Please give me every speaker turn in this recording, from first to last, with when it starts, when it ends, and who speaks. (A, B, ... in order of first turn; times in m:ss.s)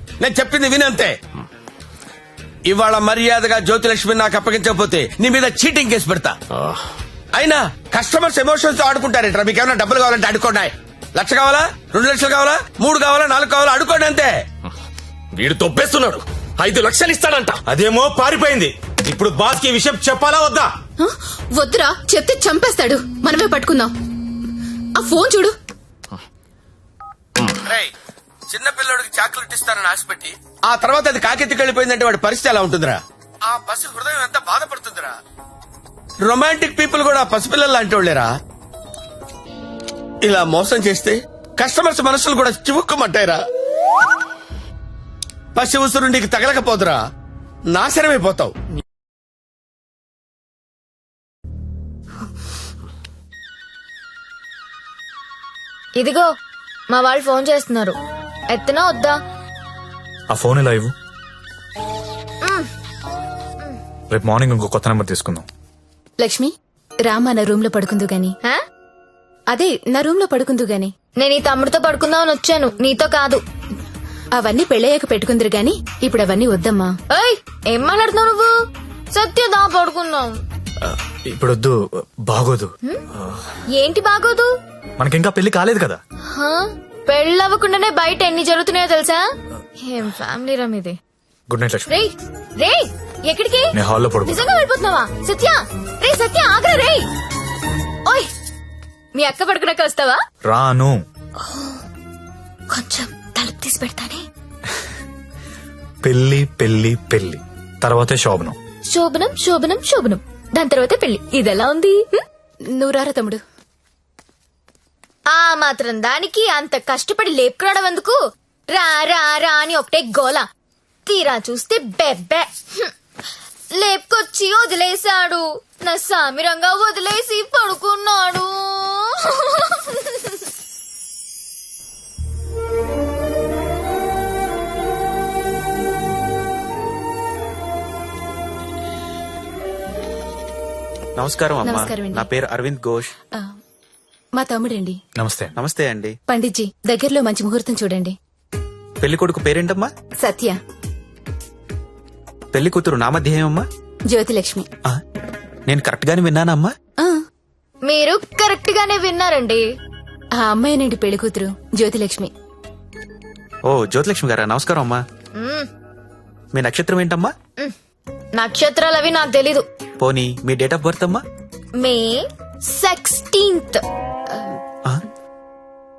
0:00.2-0:01.1 A
0:02.7-0:06.3 A
0:07.4-0:14.3 A
0:15.3-0:17.6 B
0:17.7-0:20.7 C
0:21.0-0:23.9 D
0:25.0-0:25.5 D
0:28.5-0:33.0 A
0:33.5-0:35.1 A
0:36.3-0:38.3 A
0:40.2-0:43.4 A
0:45.6-0:47.0 A
0:47.8-0:48.5 A
0:56.0-0:56.2 E
0:56.9-0:57.9 E
0:58.5-0:59.2 E
1:00.3-1:00.9 F
1:04.1-1:05.5 F
1:06.2-1:06.5 D
1:07.0-1:08.4 D
1:09.5-1:10.9 D
1:11.2-1:13.4 E
1:14.4-1:16.9 D
1:17.1-1:18.5 E
1:19.1-1:20.3 E
1:20.8-1:23.4 F
1:23.8-1:24.5 E
1:25.0-1:26.0 F
1:26.3-1:29.2 E
1:29.8-1:30.9 E
1:31.5-1:31.9 F
1:31.9-1:33.7 E
1:33.7-1:34.4 F
1:34.2-1:37.0 E
1:39.2-1:40.2 E
1:40.4-1:41.0 F
1:42.7-1:44.2 E
1:46.0-1:48.6 F
1:48.9-1:52.2 E
1:52.7-1:53.4 D
1:55.3-1:58.2 E
1:58.7-2:00.4 E
2:01.0-2:02.9 E
2:03.8-2:10.1 E
2:21.2-2:23.1 G
2:21.6-2:22.3 D
2:24.4-2:25.0 D
2:25.2-2:25.5 F
2:25.6-2:26.1 G
2:26.3-2:28.1 D
2:29.0-2:29.9 G
2:30.2-2:30.6 D
2:32.5-2:33.6 G
2:34.1-2:34.6 D
2:35.7-2:36.7 G
2:37.8-2:39.6 E
2:40.4-2:42.3 D
2:43.6-2:45.0 G
2:45.4-2:45.6 E
2:46.5-2:47.3 G
2:48.4-2:49.6 E
2:50.0-2:51.2 G
2:51.8-2:53.8 E